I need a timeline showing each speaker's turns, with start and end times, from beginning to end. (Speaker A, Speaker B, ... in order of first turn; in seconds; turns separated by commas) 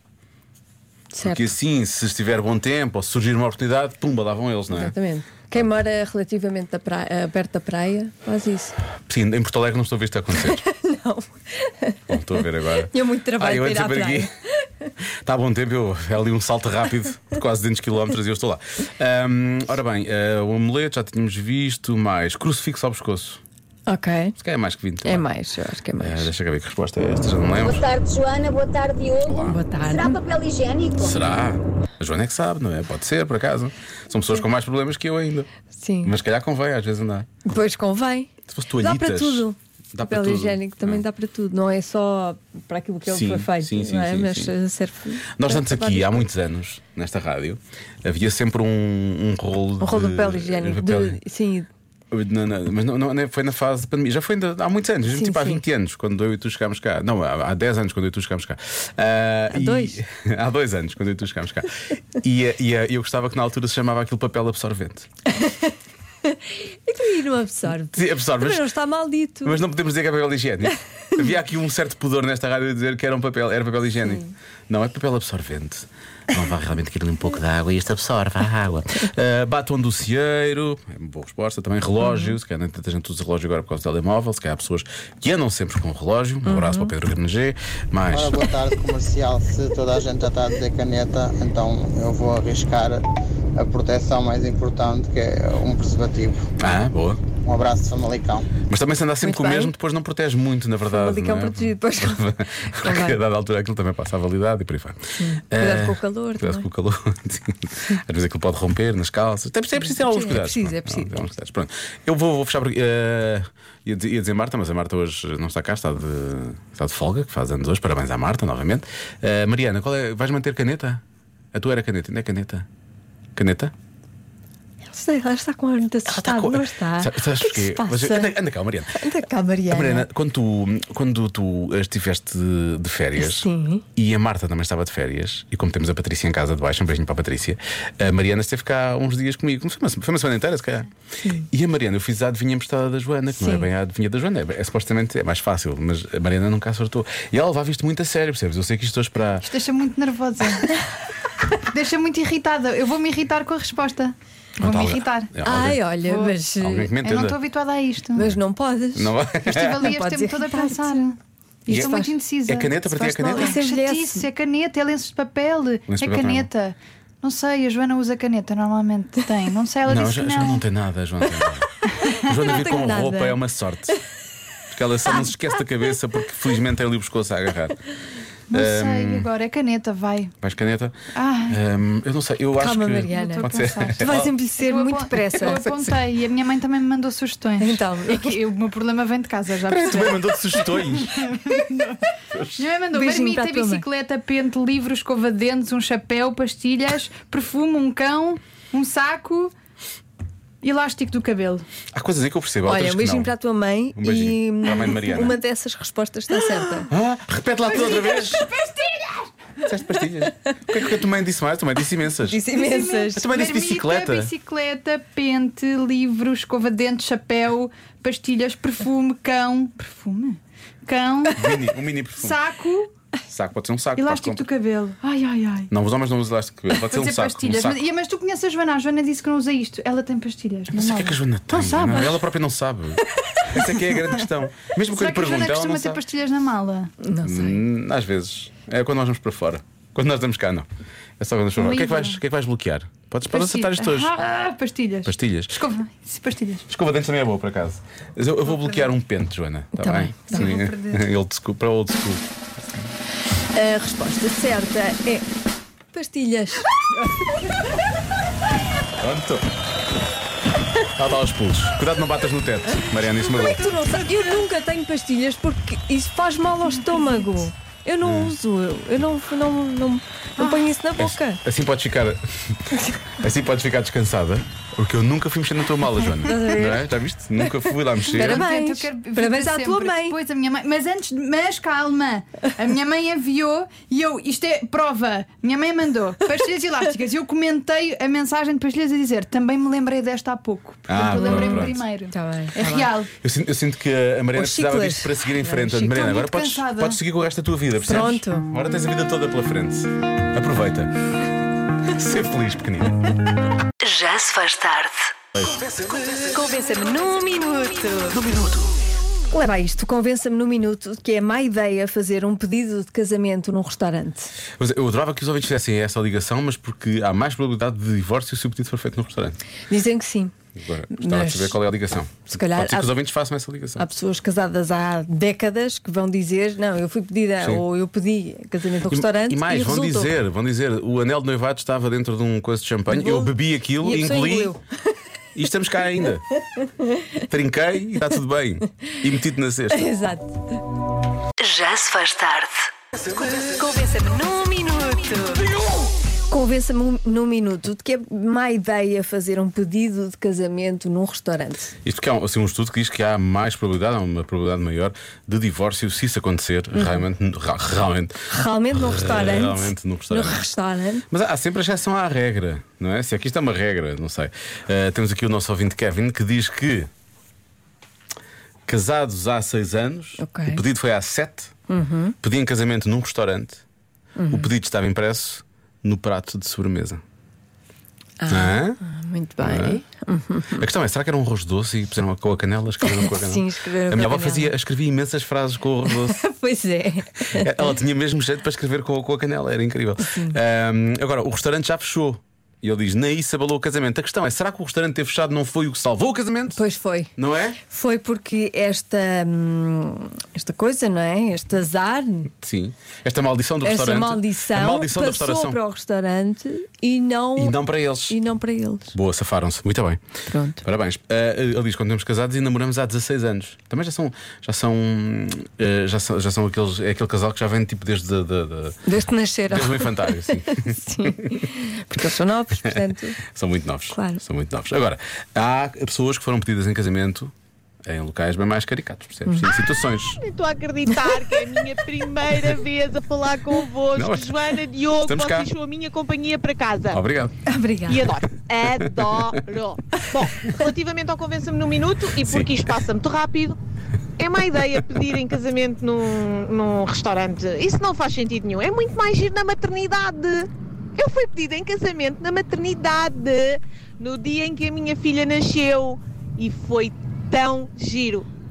Speaker A: 1.1-1.5, Speaker B: 1.2-4.9, Speaker A: 4.7-8.8, Speaker B: 9.0-10.6, Speaker A: 10.5-14.9, Speaker B: 12.1-14.3, Speaker B: 15.0-23.4, Speaker A: 23.9-24.4, Speaker B: 24.4-25.3, Speaker A: 25.0-26.3, Speaker B: 26.0-27.9, Speaker C: 27.6-31.2, Speaker B: 29.2-29.6, Speaker A: 29.4-30.2, Speaker B: 31.0-35.5, Speaker A: 35.8-36.1, Speaker B: 36.0-37.4, Speaker A: 37.4-46.3, Speaker B: 38.5-41.0, Speaker B: 43.1-44.5, Speaker B: 45.4-51.2, Speaker A: 49.8-51.7, Speaker B: 52.1-65.1, Speaker A: 55.1-55.6, Speaker A: 59.5-60.0, Speaker A: 65.3-69.6, Speaker B: 67.9-68.7, Speaker B: 69.4-88.5, Speaker A: 82.0-82.4, Speaker A: 86.5-86.9, Speaker D: 88.1-93.0, Speaker D: 93.6-96.5, Speaker B: 96.6-97.2, Speaker D: 97.4-98.5, Speaker B: 98.7-121.0, Speaker A: 99.2-99.7, Speaker A: 100.9-103.2, Speaker A: 105.2-106.7, Speaker A: 109.8-111.2, Speaker B: 121.5-122.7, Speaker B: 123.3-123.7, Speaker A: 124.9-128.3, Speaker B: 126.1-129.1, Speaker A: 128.9-130.1, Speaker B: 129.7-140.9, Speaker A: 133.2-133.8, Speaker B: 141.4-149.5, Speaker A: 143.4-143.7, Speaker E: 149.4-150.7, Speaker E: 151.6-155.3, Speaker B: 154.6-155.8, Speaker A: 155.4-156.9, Speaker E: 156.1-156.3, Speaker B: 156.6-157.4, Speaker E: 157.0-158.3, Speaker A: 158.2-161.0, Speaker B: 158.9-159.9, Speaker E: 159.5-162.8, Speaker A: 161.7-162.1, Speaker B: 161.7-161.9, Speaker B: 162.4-163.6, Speaker A: 162.9-164.3, Speaker E: 163.3-170.6, Speaker B: 165.9-166.5, Speaker B: 169.9-174.0, Speaker A: 172.1-173.4, Speaker B: 174.7-177.8, Speaker B: 178.5-179.3, Speaker E: 178.5-180.3, Speaker B: 180.4-181.0, Speaker E: 181.2-181.6, Speaker B: 181.5-184.3, Speaker A: 182.6-185.9, Speaker E: 183.1-192.0, Speaker B: 185.4-185.8, Speaker A: 187.6-188.4, Speaker B: 189.7-192.7, Speaker E: 192.6-199.5, Speaker A: 192.9-193.8, Speaker E: 200.6-201.7, Speaker B: 201.9-203.3, Speaker A: 202.7-206.9, Speaker B: 204.0-205.4, Speaker B: 206.9-208.5, Speaker E: 207.8-209.3, Speaker B: 209.6-212.5, Speaker A: 212.3-213.3, Speaker E: 212.5-221.6, Speaker B: 213.2-214.3, Speaker B: 221.3-222.4, Speaker E: 222.2-222.9, Speaker B: 223.3-224.4, Speaker E: 224.0-225.7, Speaker B: 225.7-227.8, Speaker E: 226.8-232.2, Speaker B: 230.7-236.0, Speaker E: 234.9-236.9, Speaker A: 237.0-237.6, Speaker B: 237.2-240.7, Speaker B: 241.2-244.1, Speaker E: 241.6-242.2, Speaker E: 243.3-246.7, Speaker B: 245.1-245.6, Speaker B: 246.7-252.8, Speaker A: 249.8-250.5, Speaker E: 250.3-251.0, Speaker A: 253.5-255.3, Speaker A: 255.9-256.7, Speaker B: 259.0-259.5, Speaker B: 260.9-263.8, Speaker A: 263.0-271.4, Speaker E: 266.7-267.4, Speaker B: 268.0-268.4, Speaker E: 270.4-270.7, Speaker B: 271.0-272.6, Speaker B: 273.2-278.5, Speaker A: 276.2-276.9, Speaker E: 278.1-293.1, Speaker A: 278.1-280.2, Speaker B: 290.9-291.8, Speaker A: 291.2-292.9, Speaker B: 293.2-301.3, Speaker A: 294.3-296.0, Speaker E: 295.8-297.0, Speaker A: 297.8-298.5, Speaker B: 301.8-303.1, Speaker F: 303.8-305.1, Speaker B: 305.4-305.7, Speaker A: 306.3-308.2, Speaker A: 309.3-314.3, Speaker B: 314.6-319.4, Speaker A: 319.7-320.3, Speaker B: 320.6-323.9, Speaker A: 320.9-321.6, Speaker A: 322.3-322.9, Speaker A: 323.8-330.1, Speaker B: 327.4-327.6, Speaker B: 328.9-334.6, Speaker A: 332.9-334.6, Speaker B: 335.4-336.2, Speaker B: 337.3-339.9, Speaker A: 339.7-340.4, Speaker F: 341.4-345.4, Speaker A: 346.3-351.7, Speaker B: 351.8-360.4, Speaker A: 358.3-361.1, Speaker B: 361.1-366.9, Speaker B: 368.7-371.6, Speaker A: 370.2-370.6, Speaker A: 371.7-372.1, Speaker B: 372.2-373.6, Speaker A: 374.2-374.5, Speaker B: 374.3-377.0, Speaker A: 378.2-380.7, Speaker B: 378.3-378.8, Speaker B: 379.4-379.8, Speaker B: 380.5-386.2, Speaker A: 382.8-384.5, Speaker A: 385.9-387.7, Speaker B: 387.2-396.6, Speaker A: 390.0-390.4, Speaker A: 396.6-397.1, Speaker B: 397.2-397.6, Speaker A: 397.6-402.3, Speaker B: 402.4-405.6, Speaker A: 403.6-407.6, Speaker B: 407.4-408.2, Speaker A: 408.1-408.9, Speaker B: 408.9-410.0, Speaker A: 410.3-410.6, Speaker B: 410.6-418.8, Speaker A: 418.9-423.2, Speaker B: 419.5-421.4, Speaker B: 422.6-427.3, Speaker A: 423.9-424.2, Speaker B: 427.9-430.2, Speaker G: 430.2-437.0, Speaker B: 433.9-435.5, Speaker B: 436.9-437.4, Speaker A: 437.5-438.1, Speaker G: 437.9-443.6, Speaker B: 442.2-442.6, Speaker G: 444.2-458.3